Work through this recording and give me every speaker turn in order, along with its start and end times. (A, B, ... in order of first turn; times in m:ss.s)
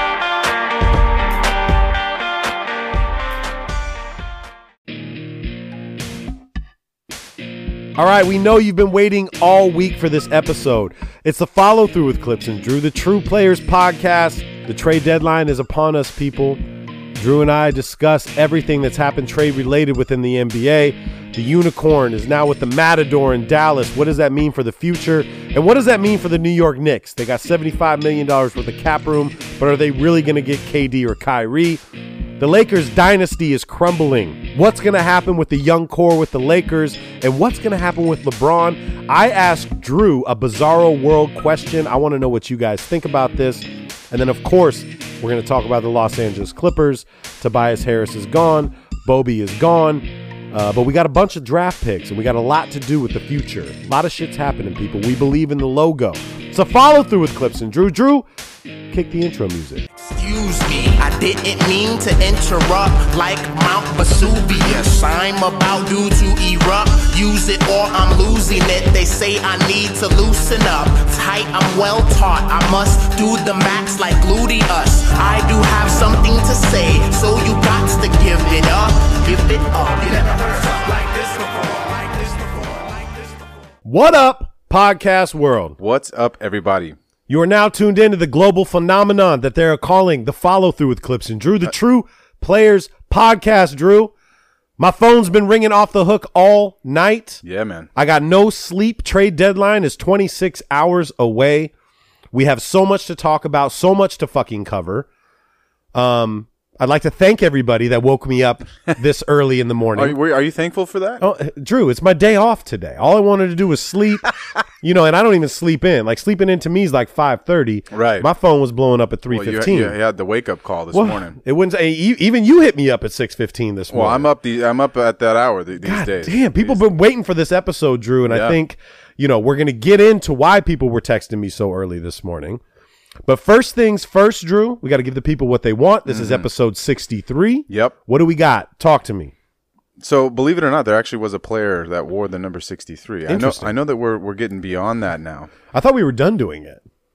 0:08.0-0:16.6 A
0:17.2-0:31.8 A
0:32.4-0:58.2 A
0:58.9-0:59.8 A
1:00.1-1:22.7 B
1:23.8-1:25.8 A
1:25.8-1:27.0 C
1:27.3-1:34.1 A
1:34.8-1:37.4 A
1:37.4-1:37.9 C
1:37.9-1:41.7 A
1:42.3-1:45.1 A
1:45.9-1:50.2 A
1:49.9-1:51.2 C
1:51.2-2:00.0 A
1:57.9-1:58.3 C
1:59.3-2:01.4 C
2:00.9-2:04.3 A
2:03.9-2:06.8 C
2:05.8-2:12.6 A
2:08.3-2:08.6 C
2:13.2-2:19.3 A
2:16.0-2:16.5 C
2:17.7-2:17.9 C
2:20.0-2:25.5 C
2:23.3-2:23.7 A
2:25.7-2:26.8 A